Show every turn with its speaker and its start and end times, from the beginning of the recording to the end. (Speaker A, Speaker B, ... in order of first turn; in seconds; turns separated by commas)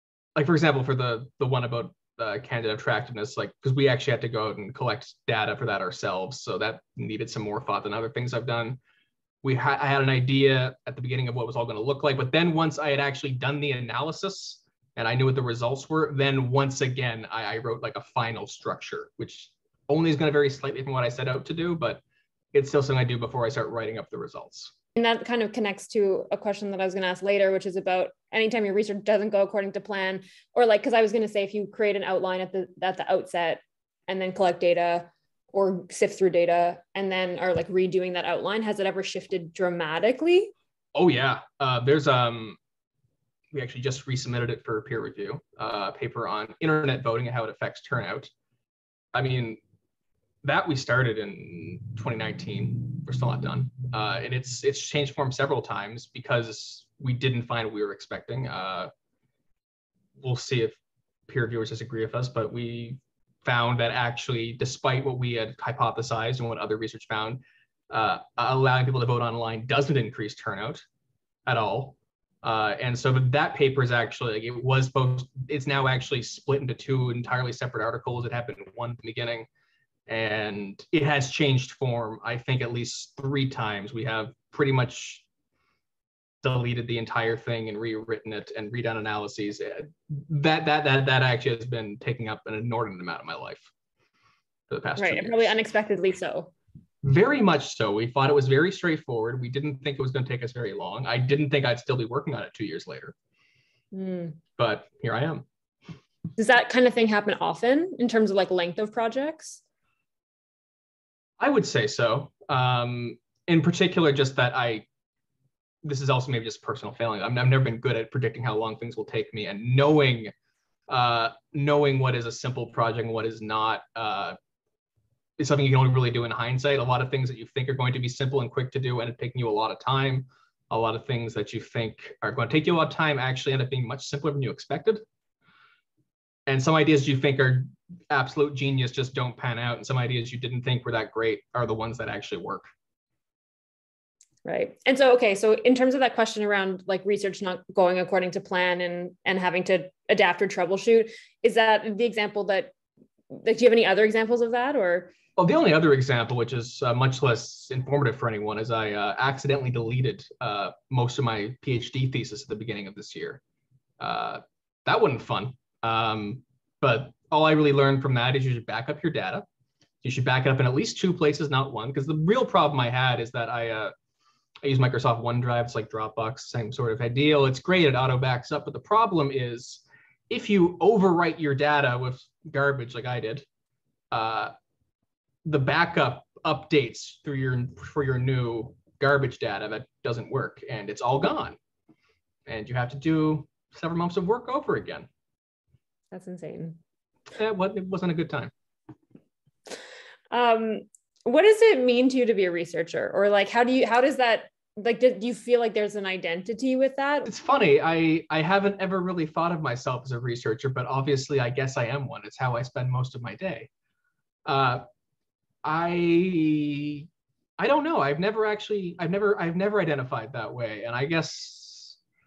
Speaker A: 0.3-8.8, Speaker A: 9.4-22.0, Speaker A: 22.5-24.7, Speaker B: 24.9-40.5, Speaker A: 40.9-42.6, Speaker A: 43.5-48.3, Speaker A: 49.1-49.6, Speaker A: 50.4-58.9, Speaker A: 60.2-70.8, Speaker A: 71.5-79.5, Speaker A: 80.1-85.2, Speaker A: 86.4-93.7, Speaker A: 94.7-95.6, Speaker B: 95.0-96.5, Speaker A: 97.0-103.1, Speaker B: 103.9-104.4, Speaker A: 104.6-105.4, Speaker B: 106.3-109.6, Speaker A: 111.4-114.8, Speaker A: 115.8-120.3, Speaker A: 120.9-124.3, Speaker A: 125.4-135.0, Speaker A: 136.5-142.7, Speaker B: 144.4-152.7, Speaker B: 153.3-155.1, Speaker A: 155.4-163.4, Speaker A: 164.0-169.4, Speaker A: 170.0-173.9, Speaker A: 174.6-183.4, Speaker A: 184.1-184.5, Speaker A: 185.4-191.6, Speaker A: 192.5-195.1, Speaker B: 196.1-196.8, Speaker A: 197.3-198.5, Speaker B: 200.3-207.3, Speaker A: 207.2-213.7, Speaker A: 214.4-214.8, Speaker A: 215.6-217.1, Speaker A: 217.6-222.0